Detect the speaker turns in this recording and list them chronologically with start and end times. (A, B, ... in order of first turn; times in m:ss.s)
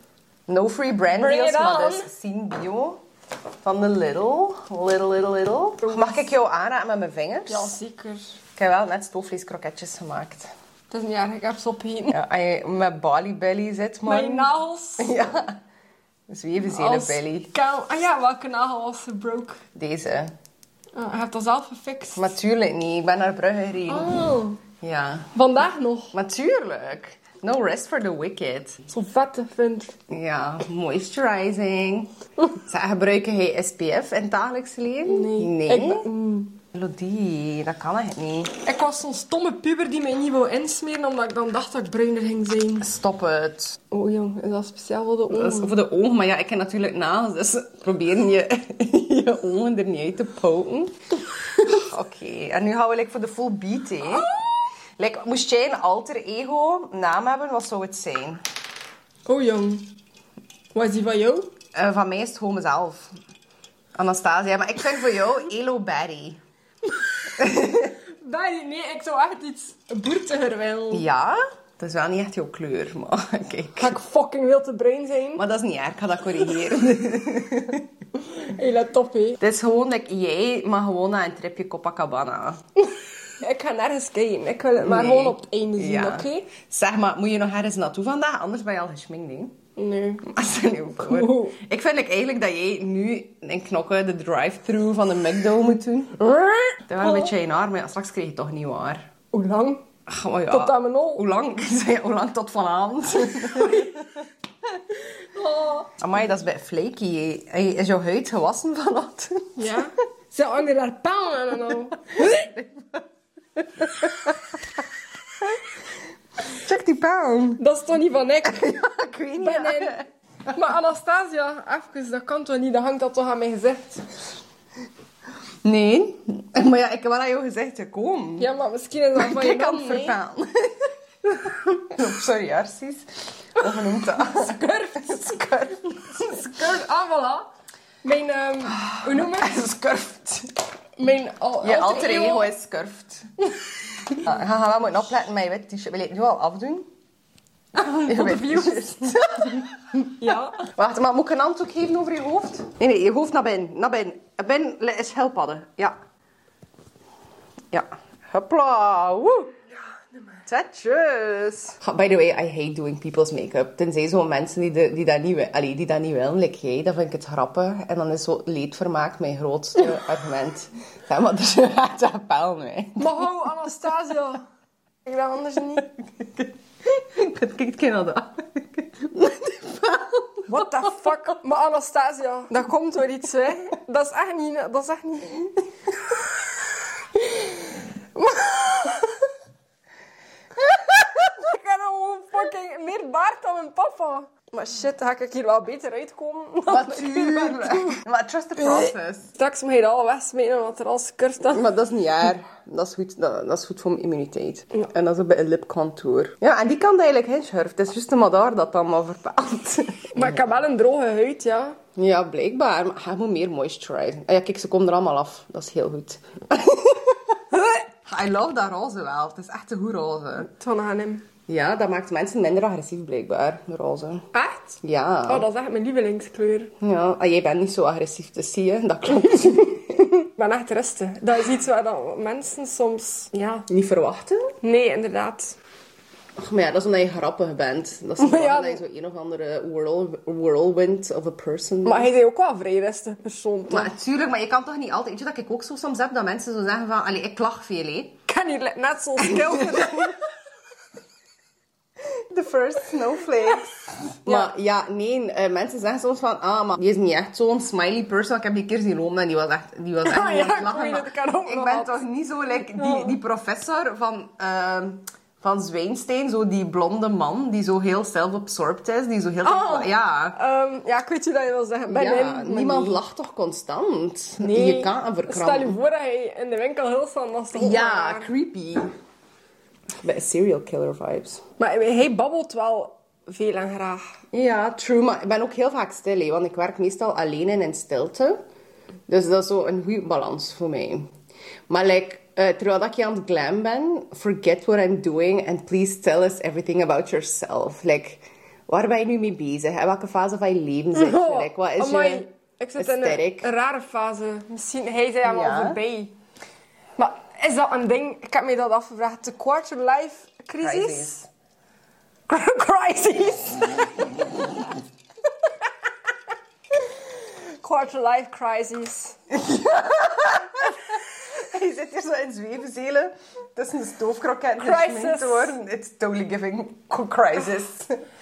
0:00.5-0:03.0 A
0:01.1-0:02.1 B
0:03.6-0:07.8 A
0:05.8-0:06.3 B
0:07.5-0:08.3 B
0:08.6-0:10.5 A
0:10.9-0:12.2 B
0:12.1-0:15.6 A
0:14.1-0:15.1 B
0:16.3-0:17.5 A
0:16.6-0:19.6 B
0:19.8-0:20.3 A
0:21.0-0:22.3 B
0:22.2-0:24.1 A
0:23.9-0:24.6 B
0:24.8-0:25.3 A
0:25.3-0:26.1 B
0:26.1-0:28.8 A
0:28.9-0:30.0 B
0:30.1-0:32.1 A
0:32.6-0:36.1 A
0:35.1-0:36.6 B
0:36.7-0:38.6 A
0:38.6-0:42.9 B
0:42.8-0:43.8 A
0:43.9-0:45.8 B
0:45.3-0:51.0 A
0:51.6-0:54.3 A
0:55.0-0:58.4 A
0:59.3-0:59.9 B
1:00.7-1:01.5 B
1:01.7-1:03.1 A
1:04.0-1:06.4 A
1:07.4-1:07.9 A
1:08.1-1:11.1 B
1:10.9-1:14.0 A
1:13.8-1:15.4 B
1:15.4-1:17.9 A
1:18.2-1:19.4 B
1:19.4-1:22.6 A
1:23.4-1:26.5 B
1:24.8-1:29.6 A
1:29.8-1:30.3 B
1:30.2-1:36.2 A
1:31.0-1:31.6 B
1:36.2-1:37.3 B
1:36.9-1:39.1 A
1:39.3-1:39.8 B
1:40.1-1:44.0 A
1:40.5-1:41.2 B
1:43.4-1:44.0 B
1:45.3-1:45.9 B
1:46.0-1:49.6 A
1:49.6-1:52.5 B
1:52.1-1:53.0 A
1:53.6-1:54.4 A
1:56.4-1:57.6 A
1:57.6-1:58.7 B
1:58.4-2:00.1 A
1:59.4-2:00.0 B
2:00.5-2:04.2 B
2:05.6-2:08.5 A
2:08.4-2:10.2 B
2:09.2-2:14.6 A
2:14.1-2:17.5 B
2:18.0-2:19.5 B
2:18.7-2:20.5 A
2:21.0-2:22.5 B
2:21.6-2:23.3 A
2:24.1-2:26.9 A
2:27.8-2:29.3 B
2:27.8-2:36.0 A
2:30.1-2:30.7 B
2:37.7-2:39.6 A
2:40.0-2:40.4 B
2:40.5-2:53.2 A
2:53.0-2:54.4 B
2:55.0-2:55.9 B
2:56.2-3:00.7 A
3:00.5-3:05.6 B
3:07.2-3:09.2 B
3:10.9-3:18.0 B
3:16.7-3:19.3 A
3:18.6-3:21.7 B
3:21.5-3:30.4 A
3:30.2-3:31.8 B
3:32.0-3:40.5 A
3:40.4-3:41.2 B
3:41.5-3:44.2 A
3:44.3-3:46.7 B
3:44.8-3:45.5 A
3:46.8-3:50.1 A
3:50.2-3:53.7 B
3:53.7-3:54.5 A
3:54.6-3:55.6 B
3:56.4-4:02.1 A
3:58.2-3:58.8 B
4:01.8-4:03.9 B
4:03.7-4:08.2 A
4:08.3-4:10.2 B
4:09.2-4:10.1 A
4:12.0-4:30.4 A
4:20.0-4:22.0 B
4:22.8-4:23.2 B
4:29.4-4:33.0 B
4:31.9-4:35.8 A
4:34.4-4:38.3 B
4:37.5-4:38.9 A
4:40.0-4:41.4 A
4:41.6-4:44.0 B
4:44.3-4:48.4 A
4:49.1-4:51.1 A
4:51.7-5:02.3 A
5:00.9-5:06.1 B
5:02.8-5:03.5 A
5:05.2-5:05.8 A
5:07.0-5:11.3 B
5:10.6-5:11.2 A
5:12.3-5:14.6 B
5:16.9-5:19.2 B
5:19.3-5:28.0 A
5:24.6-5:25.6 B